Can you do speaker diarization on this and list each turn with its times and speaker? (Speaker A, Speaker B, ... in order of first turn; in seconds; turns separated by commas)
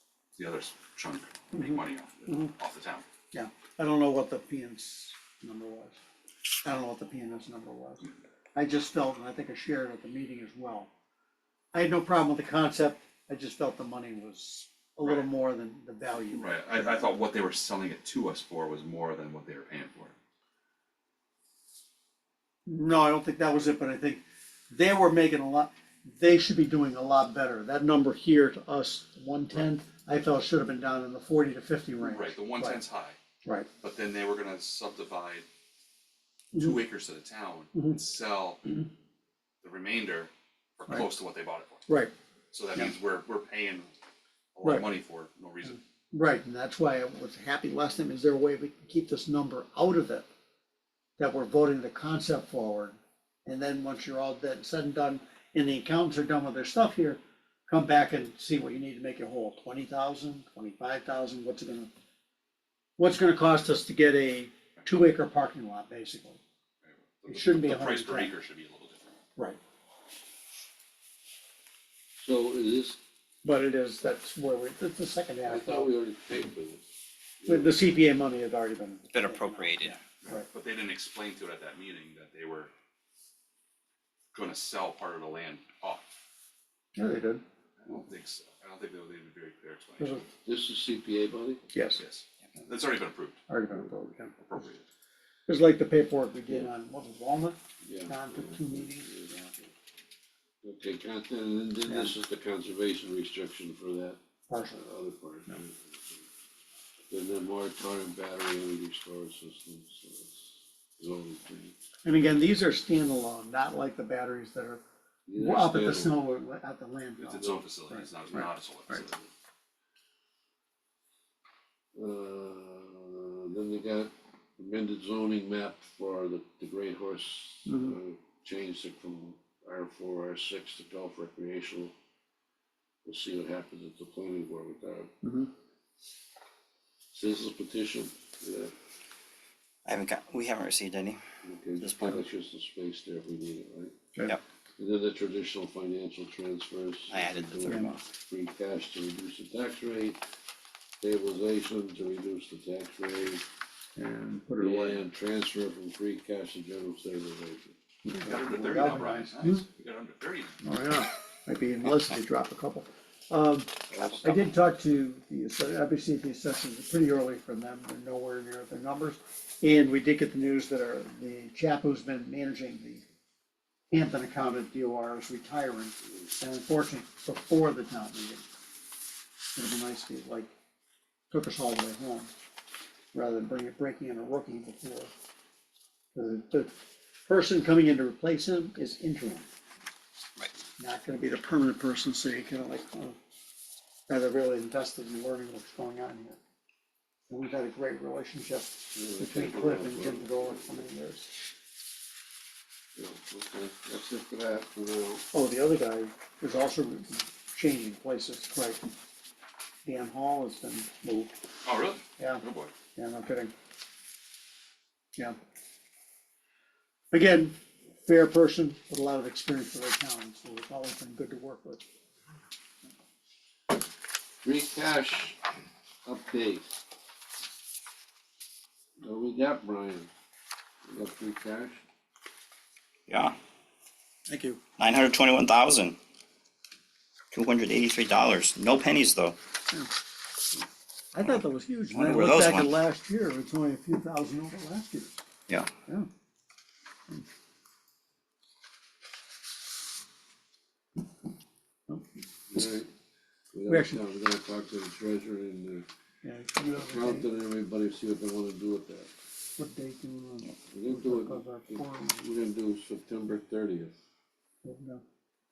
Speaker A: 0.3-3.0, Speaker B: 2.3-2.5, Speaker B: 3.3-6.0, Speaker B: 6.6-10.9, Speaker B: 11.7-17.1, Speaker A: 16.3-20.1, Speaker B: 22.6-32.8, Speaker A: 32.0-33.2, Speaker A: 33.8-35.5, Speaker B: 36.5-36.8, Speaker A: 36.5-38.7, Speaker A: 39.6-41.9, Speaker B: 41.9-42.1, Speaker A: 42.5-43.9, Speaker A: 44.5-45.8, Speaker B: 44.6-44.9, Speaker B: 46.1-50.3, Speaker B: 51.2-61.9, Speaker B: 63.0-66.4, Speaker A: 66.8-69.2, Speaker B: 67.3-68.3, Speaker C: 72.2-73.0, Speaker B: 73.4-75.9, Speaker C: 75.4-76.8, Speaker C: 77.4-77.8, Speaker B: 77.5-80.4, Speaker D: 79.1-80.0, Speaker A: 80.2-82.7, Speaker A: 84.3-86.0, Speaker B: 87.0-87.4, Speaker A: 87.8-90.2, Speaker B: 90.0-90.3, Speaker C: 90.4-91.6, Speaker B: 91.7-92.0, Speaker A: 91.9-93.4, Speaker B: 93.5-94.3, Speaker A: 94.4-94.8, Speaker B: 95.5-99.5, Speaker C: 97.8-99.4, Speaker C: 100.6-106.2, Speaker B: 101.8-102.1, Speaker B: 104.5-104.8, Speaker C: 107.1-111.8, Speaker B: 112.0-114.8, Speaker C: 115.3-116.2, Speaker B: 115.3-118.5, Speaker A: 117.2-119.3, Speaker C: 117.4-117.6, Speaker C: 121.9-131.9, Speaker B: 127.7-127.9, Speaker C: 133.0-135.2, Speaker B: 135.2-135.5, Speaker C: 137.1-138.7, Speaker D: 139.8-141.2, Speaker C: 141.4-144.0, Speaker D: 141.8-142.2, Speaker C: 144.8-150.2, Speaker D: 147.1-148.0, Speaker C: 151.0-153.4, Speaker B: 153.9-155.0, Speaker C: 154.6-157.8, Speaker B: 158.0-159.6, Speaker A: 158.1-160.6, Speaker B: 160.6-173.0, Speaker C: 163.9-164.4, Speaker D: 164.0-164.4, Speaker B: 173.9-178.4, Speaker B: 179.5-180.5, Speaker B: 181.3-182.3, Speaker B: 183.1-185.1, Speaker B: 186.1-186.7, Speaker B: 187.3-189.5, Speaker B: 190.8-193.2, Speaker B: 194.1-196.4, Speaker B: 197.3-201.3, Speaker C: 198.9-200.9, Speaker C: 202.9-205.2, Speaker B: 205.3-208.8, Speaker B: 209.8-211.3, Speaker A: 211.6-212.7, Speaker B: 212.2-213.5, Speaker B: 217.1-221.8, Speaker C: 224.4-225.4, Speaker C: 226.0-226.8, Speaker C: 229.0-230.1, Speaker C: 230.8-231.8, Speaker D: 233.1-233.4, Speaker B: 234.3-234.6, Speaker D: 234.8-236.0, Speaker D: 237.3-239.3, Speaker B: 241.1-245.2, Speaker D: 241.9-242.7, Speaker C: 252.5-252.9, Speaker C: 253.5-255.9, Speaker B: 253.7-254.0, Speaker B: 256.2-257.3, Speaker C: 256.8-259.1, Speaker B: 259.6-262.2, Speaker C: 260.7-263.9, Speaker B: 264.6-265.0